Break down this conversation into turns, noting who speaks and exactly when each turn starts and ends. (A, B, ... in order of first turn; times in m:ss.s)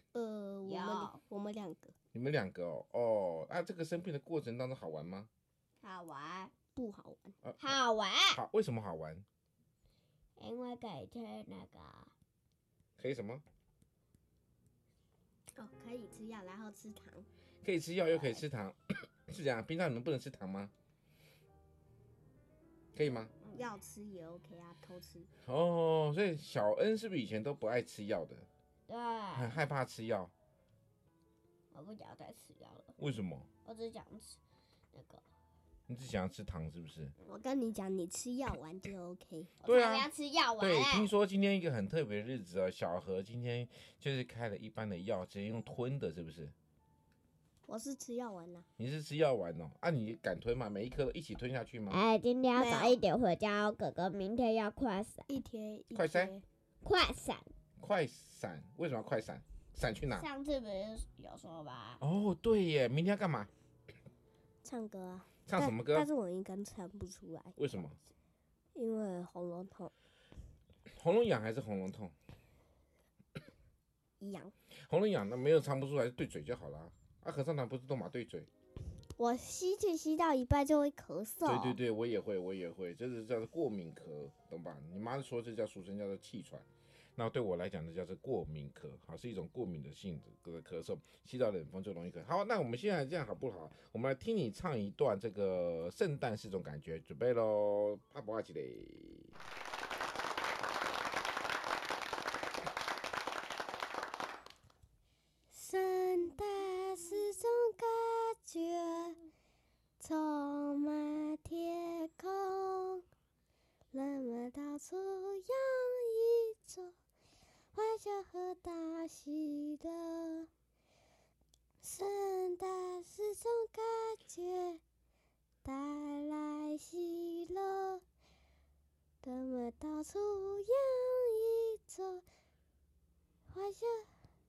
0:00.1-0:01.9 A
0:00.7-0:01.1 B
0:02.1-0:05.3 C
0:05.8-0:07.4 A
0:05.9-0:06.5 B
0:07.4-0:07.8 C
0:07.6-0:08.4 B
0:08.3-0:09.2 C
0:10.4-0:12.1 B
0:13.0-0:13.4 C
0:15.6-0:17.3 A
0:17.6-0:20.7 C
0:23.0-0:23.3 C
0:23.4-0:23.7 B
0:23.6-0:25.3 A
0:25.4-0:28.5 C
0:28.9-0:29.6 B
0:29.3-0:30.3 C
0:31.7-0:33.0 B
0:33.0-0:33.5 C
0:33.6-0:34.4 B
0:34.9-0:35.2 B
0:35.9-0:37.1 C
0:37.2-0:39.5 A
0:39.6-0:46.5 C
0:39.6-0:41.1 B
0:47.7-0:48.6 A
0:48.8-0:52.0 C
0:51.9-0:55.3 B
0:52.6-0:53.0 A
0:55.3-0:56.4 A
0:55.9-0:56.4 C
0:56.8-0:57.5 B
0:57.8-1:00.3 C
1:00.1-1:02.0 B
1:02.0-1:03.5 C
1:04.6-1:07.6 A
1:05.5-1:06.1 C
1:07.6-1:08.0 C
1:08.8-1:09.9 A
1:10.9-1:12.1 C
1:14.2-1:14.5 A
1:14.9-1:18.5 C
1:19.2-1:21.8 A
1:21.4-1:26.7 C
1:27.2-1:39.4 C
1:45.5-1:49.2 A
1:50.0-1:53.0 A
1:53.9-1:56.9 A
1:57.8-2:00.5 A
2:01.8-2:04.8 A
2:05.6-2:08.0 A
2:09.2-2:12.2 A
2:13.5-2:14.1 A